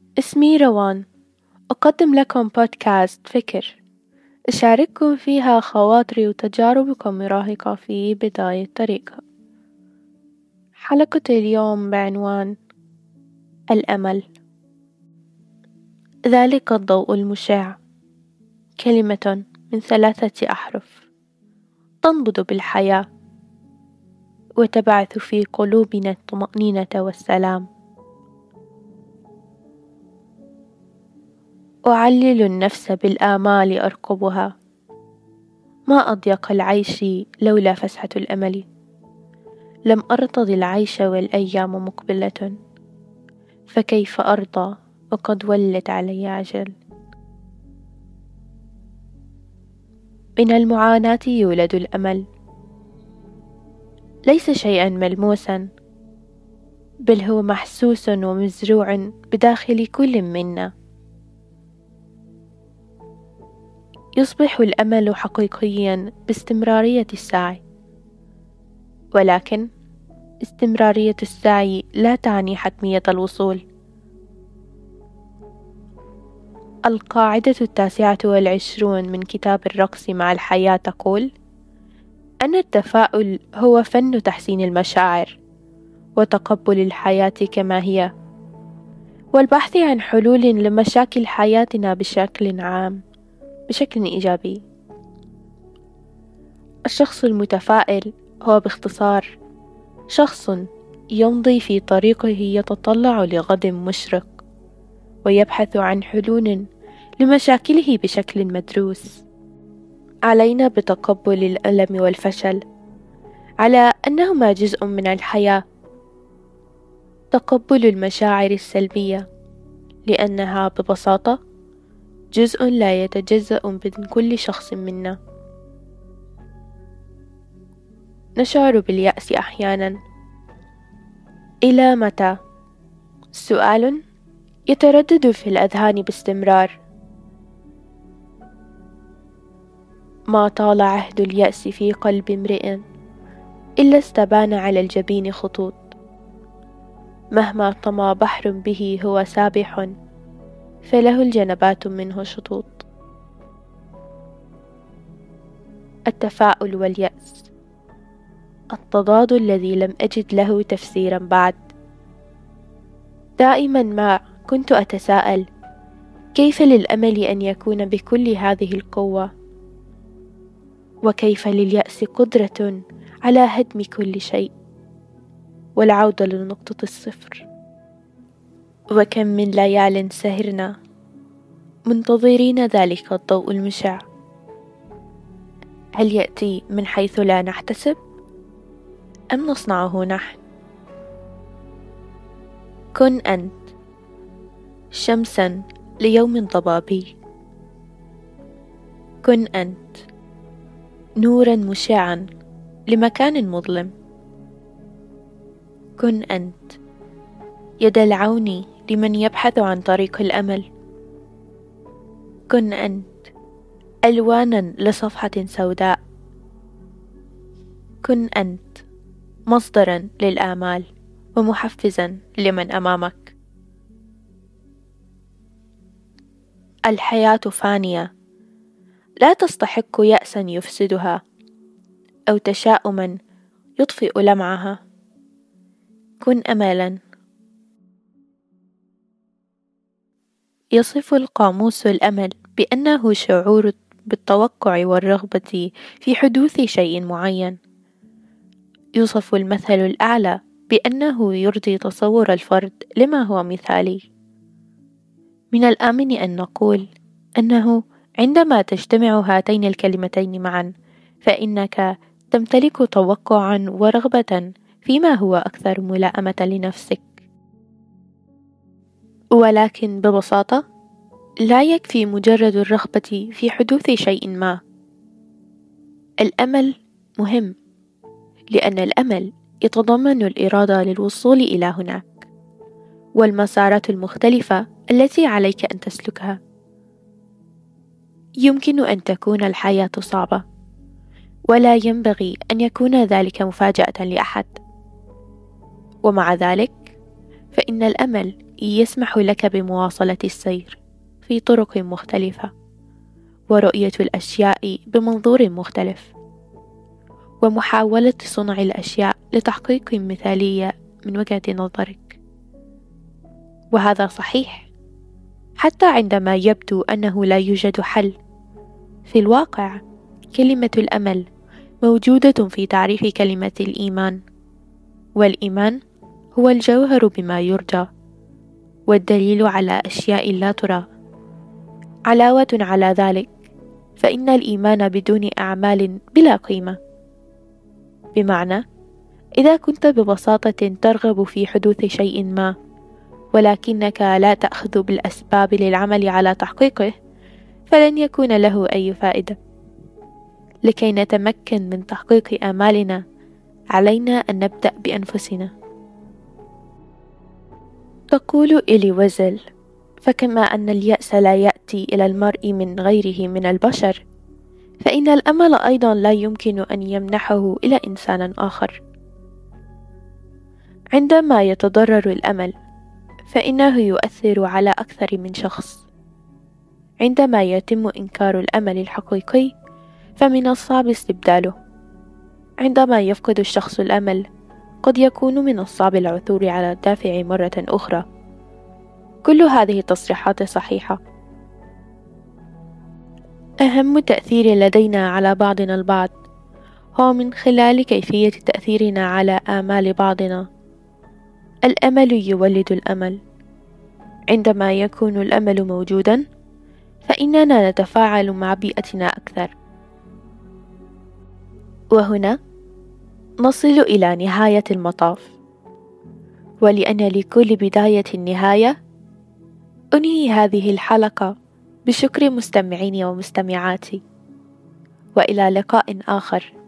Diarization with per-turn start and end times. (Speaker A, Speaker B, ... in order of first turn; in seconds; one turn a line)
Speaker A: 0.2-1.0
Speaker A: 1.7-3.8
Speaker A: 4.5-9.2
Speaker A: 10.8-12.6
Speaker A: 13.7-14.2
Speaker A: 16.3-17.8
Speaker A: 18.8-21.0
Speaker A: 22.0-23.0
Speaker A: 24.6-27.6
Speaker A: 31.9-34.5
Speaker A: 35.9-38.6
Speaker A: 39.9-42.5
Speaker A: 43.7-46.7
Speaker A: 50.4-52.2
Speaker A: 54.3-55.6
Speaker A: 57.1-60.7
Speaker A: 64.2-67.6
Speaker A: 69.2-69.7
Speaker A: 70.4-73.6
Speaker A: 76.9-81.3
Speaker A: 82.4-85.4
Speaker A: 86.2-88.1
Speaker A: 89.3-93.0
Speaker A: 93.7-94.6
Speaker A: 96.9-99.3
Speaker A: 100.1-100.6
Speaker A: 101.2-104.3
Speaker A: 105.3-106.6
Speaker A: 107.2-109.2
Speaker A: 110.3-112.6
Speaker A: 113.6-115.6
Speaker A: 117.3-119.2
Speaker A: 120.1-121.4
Speaker A: 122.3-125.2
Speaker A: 128.4-129.9
Speaker A: 131.7-132.3
Speaker A: 133.3-134.0
Speaker A: 134.7-136.8
Speaker A: 140.3-142.8
Speaker A: 143.8-145.9
Speaker A: 147.3-149.9
Speaker A: 150.8-152.9
Speaker A: 156.1-157.5
Speaker A: 158.7-161.6
Speaker A: 163.4-165.4
Speaker A: 166.4-169.3
Speaker A: 171.1-174.5
Speaker A: 175.8-177.5
Speaker A: 178.9-180.7
Speaker A: 181.9-184.0
Speaker A: 186.0-188.0
Speaker A: 189.3-190.4
Speaker A: 193.0-193.6
Speaker A: 194.9-197.1
Speaker A: 199.2-199.9
Speaker A: 201.2-202.3
Speaker A: 202.9-203.9
Speaker A: 206.0-206.8
Speaker A: 207.8-210.7
Speaker A: 212.5-213.2
Speaker A: 214.1-216.0
Speaker A: 218.0-218.8
Speaker A: 219.5-220.9
Speaker A: 221.4-223.3
Speaker A: 226.9-228.1
Speaker A: 229.2-231.2
Speaker A: 232.3-233.2
Speaker A: 233.8-234.8
Speaker A: 236.2-237.0
Speaker A: 240.8-247.6
Speaker A: 249.0-254.1
Speaker A: 255.5-256.9
Speaker A: 257.4-260.7
Speaker A: 261.2-267.1
Speaker A: 269.4-270.6
Speaker A: 271.4-274.6
Speaker A: 276.2-277.6
Speaker A: 278.5-282.3
Speaker A: 283.2-286.4
Speaker A: 288.4-290.4
Speaker A: 291.5-294.6
Speaker A: 296.1-296.9
Speaker A: 297.5-302.5
Speaker A: 303.5-306.1
Speaker A: 307.4-312.2
Speaker A: 313.7-314.7
Speaker A: 315.6-318.1
Speaker A: 319.1-319.8
Speaker A: 320.4-321.2
Speaker A: 321.8-324.2
Speaker A: 325.2-325.8
Speaker A: 326.4-327.9
Speaker A: 328.9-330.9
Speaker A: 332.1-333.3
Speaker A: 334.0-336.8
Speaker A: 338.1-338.6
Speaker A: 339.4-342.5
Speaker A: 343.3-346.9
Speaker A: 347.7-349.4
Speaker A: 350.7-353.0
Speaker A: 353.7-355.5
Speaker A: 358.1-359.4
Speaker A: 360.0-364.0
Speaker A: 364.8-368.8
Speaker A: 370.9-372.5
Speaker A: 373.3-375.9
Speaker A: 377.0-379.5
Speaker A: 380.2-381.6
Speaker A: 382.6-384.2
Speaker A: 384.8-388.1
Speaker A: 389.3-391.0
Speaker A: 393.6-396.1
Speaker A: 397.0-400.5
Speaker A: 401.7-403.2
Speaker A: 404.3-406.2
Speaker A: 407.1-409.5
Speaker A: 411.9-412.4
Speaker A: 413.4-415.3
Speaker A: 416.6-418.8
Speaker A: 419.9-421.3
Speaker A: 421.9-424.0
Speaker A: 425.2-426.5